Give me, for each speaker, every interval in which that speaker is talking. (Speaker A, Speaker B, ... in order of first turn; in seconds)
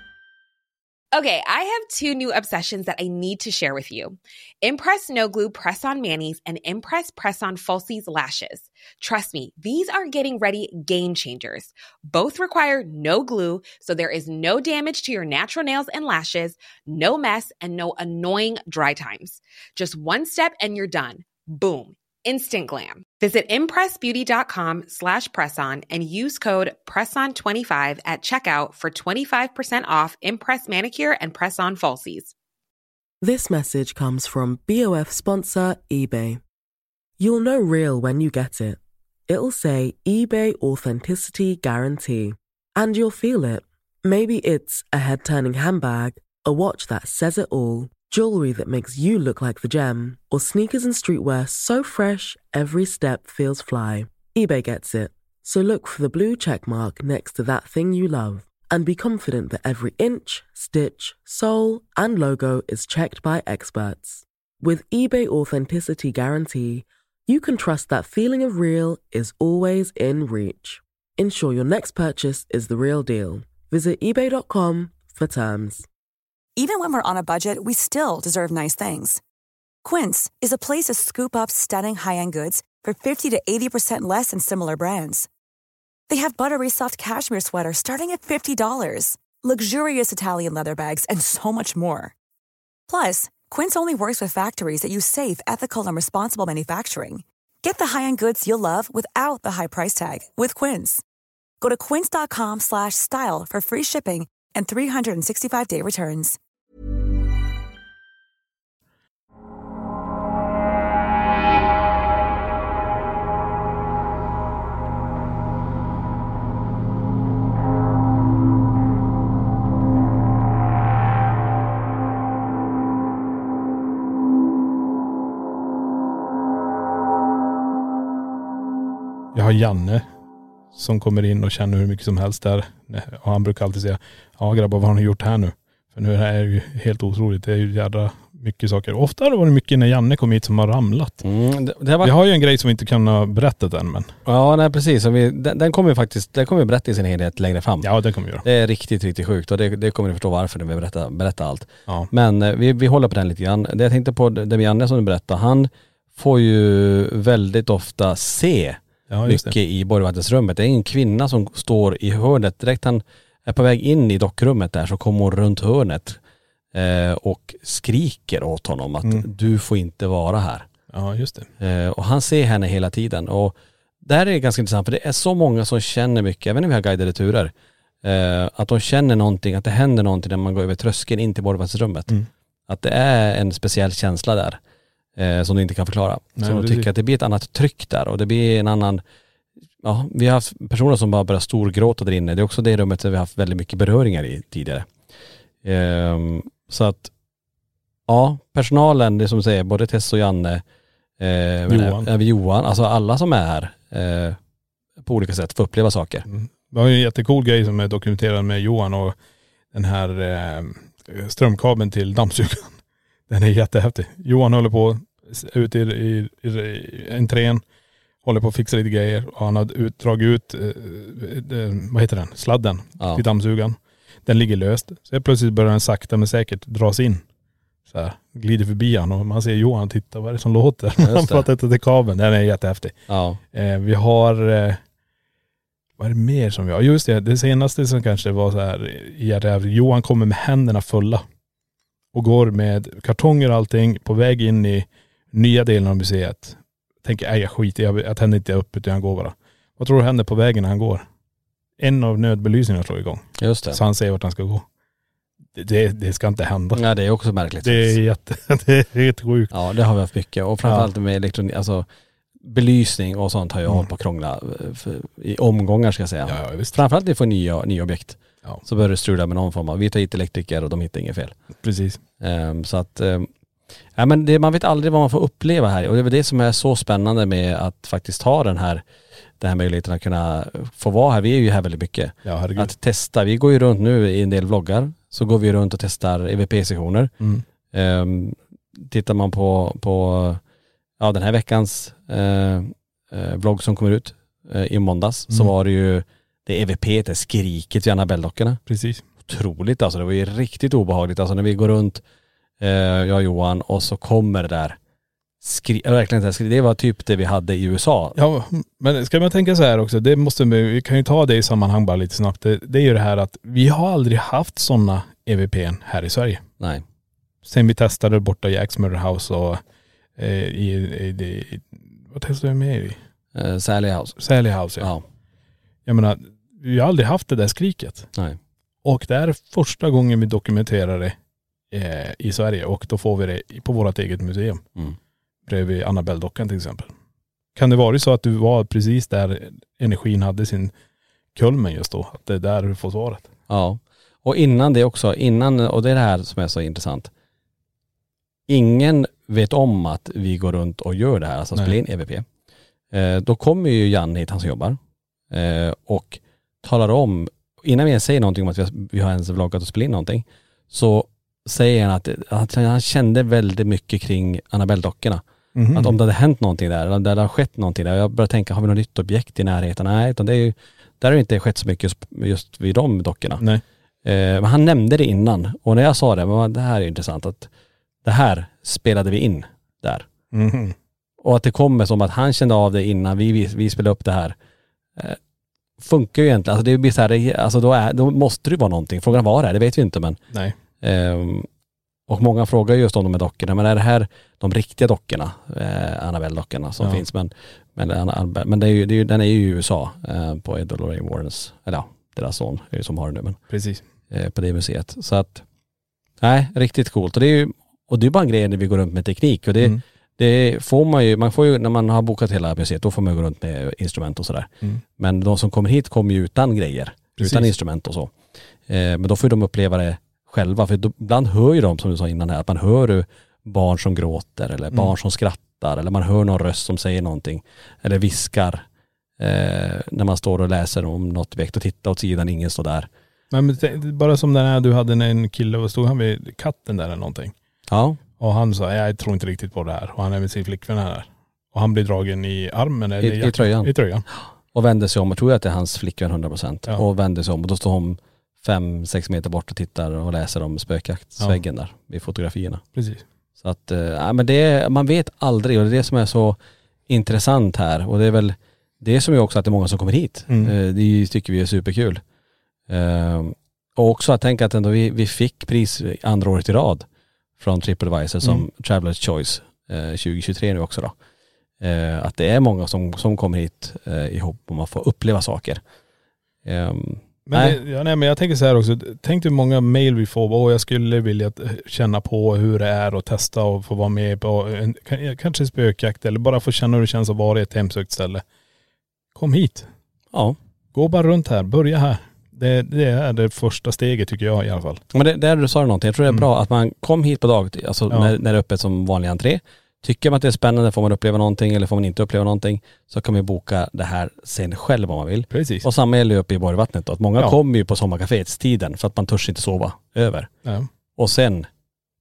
Speaker A: 1.1-32.3
Speaker B: 33.2-36.4, 37.2-75.8
Speaker C: 76.5-79.2, 79.8-85.3, 86.1-92.1, 92.9-101.0, 101.6-106.4
Speaker D: 129.3-130.1, 130.7-141.2, 142.0-144.1, 147.8-148.4, 159.1-159.6, 170.9-171.5, 186.4-186.9, 201.7-202.1, 206.3-209.2, 209.7-217.6, 218.2-227.2, 227.9-232.9, 233.5-234.8, 236.0-241.2, 242.1-251.1, 251.8-254.7, 255.5-256.8, 257.6-259.5, 260.6-260.9, 266.2-266.8, 271.6-272.0, 282.2-282.7, 298.7-299.0, 308.1-316.4, 317.4-319.6, 320.2-323.0, 324.2-324.9, 325.9-328.1, 328.8-331.2, 331.7-334.6, 335.4-336.9, 337.5-340.7, 341.3-343.3, 365.5-366.0, 380.3-380.8, 390.3-390.6, 396.8-397.0, 403.5-403.8, 417.2-417.5, 433.3-437.3, 438.2-444.0, 452.7-453.0, 460.3-460.5, 477.2-488.2, 489.1-489.7, 490.7-494.8, 497.9-498.1, 505.3-505.7
Speaker E: 141.2-142.1, 144.2-147.9, 148.4-166.2, 166.7-170.7, 171.6-182.1, 182.7-184.6, 185.2-189.0, 189.8-194.9, 195.6-197.1, 198.1-200.6, 201.2-204.4, 205.0-206.2, 231.0-231.4, 233.1-233.4, 253.4-253.8, 256.7-258.0, 259.5-261.9, 262.4-271.4, 272.2-273.3, 273.9-278.8, 279.4-287.1, 287.7-290.4, 291.0-298.6, 299.2-302.0, 302.6-304.8, 305.4-308.2, 323.3-324.2, 324.8-325.0, 343.5-347.1, 348.5-352.2, 352.9-354.8, 355.3-365.2, 365.7-373.4, 374.0-377.5, 378.0-380.1, 381.2-384.3, 385.8-390.2, 390.8-391.5, 392.1-403.4, 404.1-405.4, 406.2-418.1, 418.7-428.6, 429.2-432.9, 437.7-438.0, 443.0-452.6, 453.4-462.0, 462.7-466.8, 467.4-470.9, 471.6-475.6, 476.4-477.6, 494.9-510.3, 510.9-511.5